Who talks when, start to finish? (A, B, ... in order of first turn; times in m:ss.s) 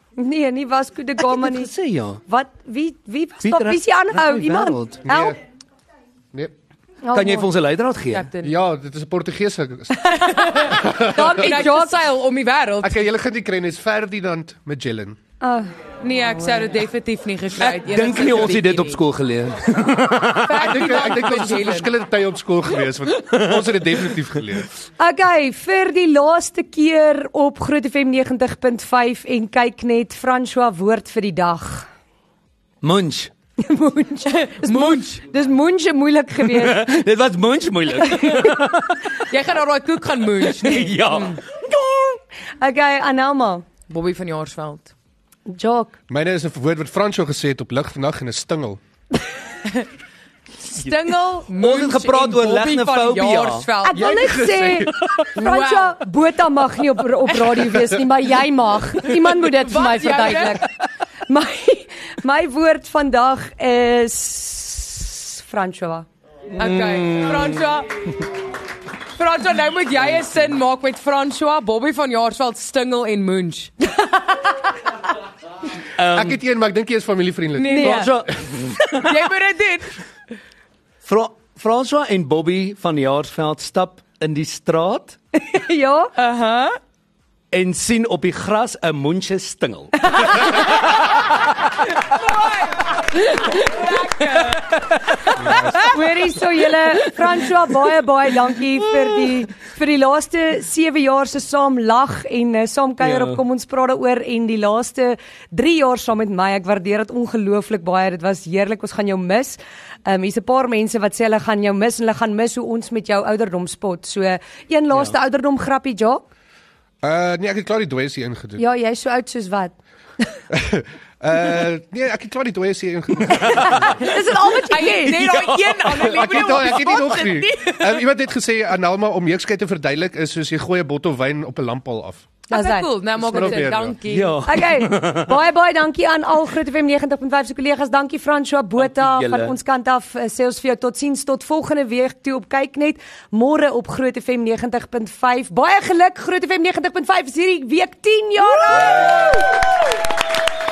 0:00.2-0:01.7 A
0:01.2-0:02.2 B
0:02.2-0:05.4 A
0:03.4-0:05.1 B
0:05.0-0:05.4 C
0:07.0-0:07.5 A
0:07.1-0:08.3 B
0:08.1-0:08.6 D
0:08.4-0:11.7 C
0:10.1-0:13.1 D
0:10.6-0:12.0 A
0:12.8-0:15.2 C
0:15.4-0:15.7 A
0:16.0-0:19.0 D
0:17.6-0:20.7 B
0:20.3-0:21.9 D
0:20.6-0:24.7 C
0:23.2-0:24.2 B
0:25.0-0:31.9 A
0:32.8-0:33.3 B
0:33.6-0:37.0 A
0:34.5-0:35.2 D
0:36.4-0:39.2 B
0:38.0-0:38.6 A
0:39.2-0:41.2 D
0:40.4-0:42.2 B
0:42.6-0:43.6 A
0:43.9-0:44.9 D
0:45.5-0:46.0 A
0:46.1-0:48.8 C
0:50.6-0:54.2 D
0:51.5-0:53.7 B
0:53.8-1:00.7 A
0:54.0-0:55.1 C
0:55.3-0:56.0 D
0:59.4-1:00.6 D
1:01.3-1:06.0 A
1:06.5-1:07.7 B
1:06.6-1:08.0 D
1:09.2-1:13.9 D
1:16.0-1:16.4 B
1:16.1-1:18.1 C
1:17.6-1:18.1 A
1:17.6-1:18.1 D
1:17.7-1:18.9 B
1:18.9-1:20.0 D
1:21.0-1:25.2 B
1:25.4-1:26.1 A
1:26.2-1:26.8 D
1:27.5-1:31.0 B
1:32.3-1:35.8 D
1:35.4-1:35.9 C
1:35.7-1:56.3 A
1:43.0-1:43.4 B
1:57.0-1:58.6 C
1:58.6-2:00.3 A
2:00.5-2:04.0 C
2:03.5-2:05.3 A
2:04.6-2:08.0 D
2:05.2-2:06.6 B
2:06.1-2:12.3 C
2:12.5-2:13.7 A
2:12.5-2:14.4 D
2:13.2-2:13.9 C
2:14.0-2:15.4 B
2:14.4-2:29.3 A
2:18.8-2:19.6 B
2:28.8-2:29.3 B